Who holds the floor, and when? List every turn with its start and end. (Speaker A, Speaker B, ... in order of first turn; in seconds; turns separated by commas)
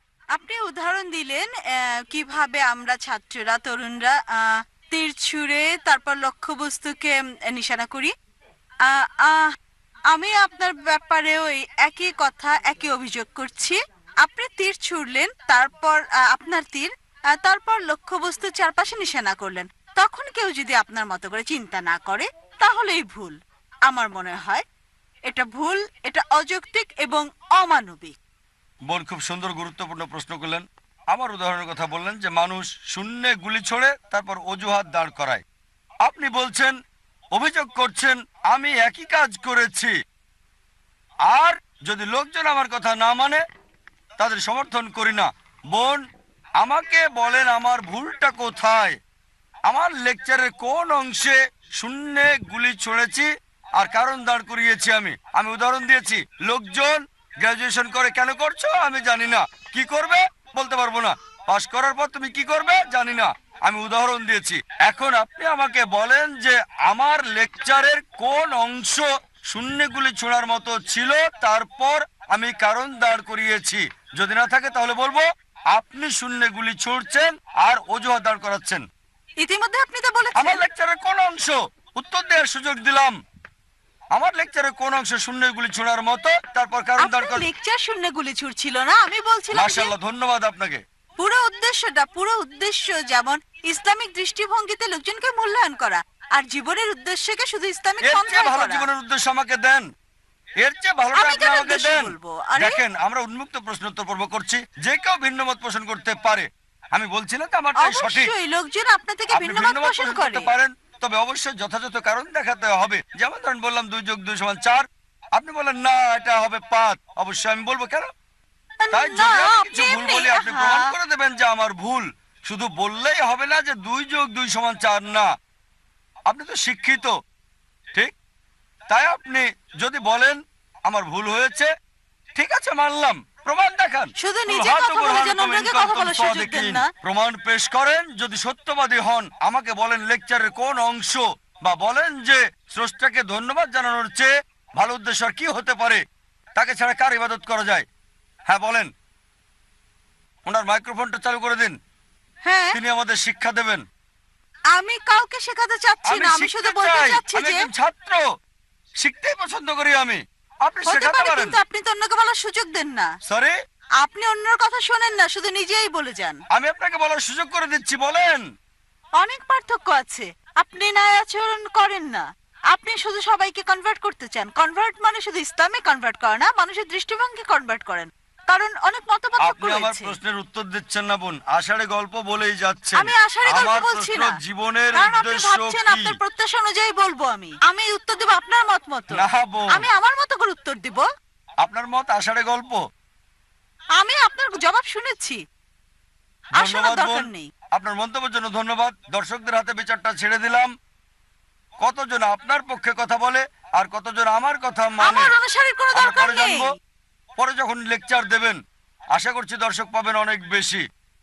Speaker A: 0.3-8.1, Speaker A: 8.8-9.5, Speaker A: 10.1-23.4, Speaker A: 23.9-24.6, Speaker A: 25.3-28.1, Speaker B: 28.9-35.4, Speaker B: 36.0-36.8, Speaker B: 37.4-39.9, Speaker B: 41.3-43.4, Speaker B: 44.2-46.0, Speaker B: 46.6-49.0, Speaker B: 49.7-78.8, Speaker A: 79.4-80.6, Speaker B: 80.4-83.2, Speaker B: 84.2-87.5, Speaker A: 87.0-89.9, Speaker B: 89.5-90.8, Speaker A: 91.2-98.9, Speaker B: 98.0-99.8, Speaker B: 100.6-108.3, Speaker A: 101.1-102.8, Speaker A: 107.8-110.5, Speaker B: 109.3-114.8, Speaker B: 115.4-118.1, Speaker A: 118.8-120.9, Speaker B: 118.9-125.3, Speaker B: 126.3-127.1, Speaker B: 128.9-131.7, Speaker B: 132.4-146.0, Speaker A: 134.2-136.9, Speaker B: 146.6-147.8, Speaker B: 148.5-148.9, Speaker B: 150.5-151.8, Speaker A: 152.4-152.8, Speaker B: 152.7-153.8, Speaker A: 154.7-157.7, Speaker B: 156.1-158.2, Speaker B: 159.0-161.6, Speaker A: 160.9-163.1, Speaker B: 163.3-163.5, Speaker A: 164.0-166.4, Speaker B: 166.6-168.4, Speaker A: 169.2-180.2, Speaker B: 179.4-186.1, Speaker A: 183.0-184.3, Speaker A: 185.0-189.2, Speaker B: 189.1-189.8, Speaker A: 189.7-191.0, Speaker B: 191.6-192.8, Speaker A: 194.0-195.4, Speaker B: 196.6-200.7, Speaker A: 196.6-197.5, Speaker B: 201.8-205.3, Speaker A: 205.0-206.7, Speaker B: 206.0-206.7, Speaker B: 207.4-208.6, Speaker B: 209.2-210.8